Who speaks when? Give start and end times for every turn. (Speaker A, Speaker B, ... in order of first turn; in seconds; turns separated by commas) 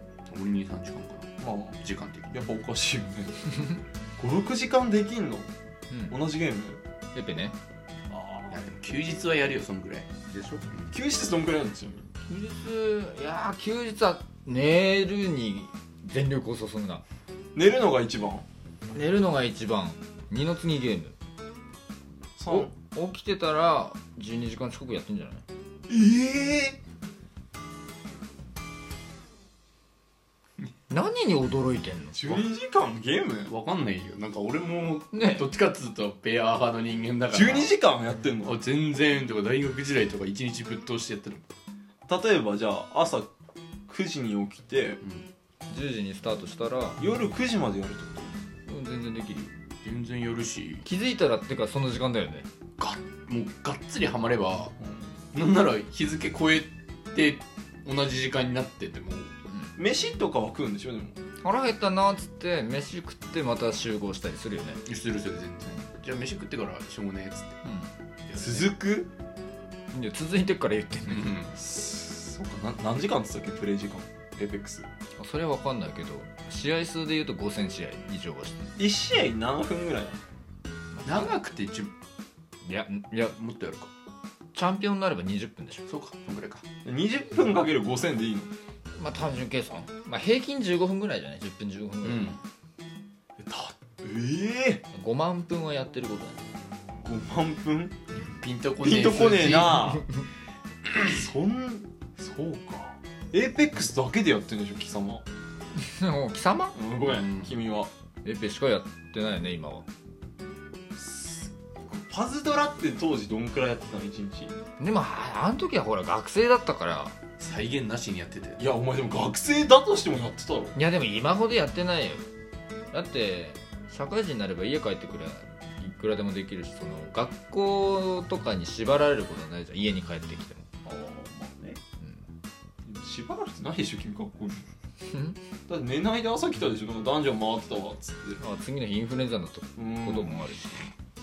Speaker A: 0.3-2.4, Speaker B: 1.4-1.8, Speaker B: 2.3-3.5, Speaker B: 4.2-5.5, Speaker C: 5.9-6.2, Speaker B: 6.1-6.8, Speaker C: 7.2-7.6, Speaker B: 8.1-8.7, Speaker A: 8.5-10.1, Speaker C: 10.3-10.6, Speaker B: 10.9-12.1, Speaker C: 12.3-17.0, Speaker B: 17.6-18.5, Speaker C: 18.9-21.2, Speaker B: 22.4-22.7, Speaker C: 22.5-25.4, Speaker B: 25.9-26.8, Speaker C: 30.9-32.4, Speaker B: 32.1-33.5, Speaker A: 33.5-37.7, Speaker C: 35.1-35.5, Speaker B: 37.3-38.6, Speaker A: 38.4-41.4, Speaker B: 42.1-43.3, Speaker B: 43.9-45.0, Speaker A: 45.0-45.3, Speaker C: 45.7-47.0, Speaker B: 47.0-48.4, Speaker C: 48.7-49.5, Speaker A: 49.8-50.9, Speaker C: 50.8-52.5, Speaker A: 52.8-54.7, Speaker B: 54.8-55.1, Speaker A: 55.3-59.3, Speaker B: 59.8-61.2, Speaker C: 61.4-64.8, Speaker A: 64.9-67.6, Speaker C: 67.6-67.9, Speaker A: 68.3-68.7, Speaker B: 68.4-69.1, Speaker C: 69.9-71.4, Speaker A: 71.1-71.5, Speaker B: 71.5-74.9, Speaker C: 75.2-78.8, Speaker B: 78.8-80.2, Speaker C: 80.9-81.4, Speaker A: 81.1-81.9, Speaker C: 82.6-83.4, Speaker A: 83.4-83.9, Speaker C: 84.5-85.8, Speaker A: 85.9-86.6, Speaker B: 86.8-88.5, Speaker C: 89.0-92.3, Speaker A: 92.0-92.4, Speaker B: 93.4-94.8, Speaker C: 94.9-96.5, Speaker B: 97.0-98.0, Speaker A: 98.3-99.9, Speaker B: 98.8-100.0, Speaker B: 101.0-105.2, Speaker C: 105.8-106.8, Speaker B: 106.7-107.9, Speaker A: 107.0-107.5, Speaker C: 108.2-109.9, Speaker B: 110.9-114.6, Speaker C: 114.8-117.2, Speaker A: 117.4-118.6, Speaker B: 118.6-120.8, Speaker C: 120.8-122.2, Speaker C: 122.9-130.7, Speaker B: 130.8-131.8, Speaker B: 132.8-134.7, Speaker C: 135.1-135.4, Speaker B: 135.7-138.4, Speaker C: 138.4-140.9, Speaker B: 139.8-140.5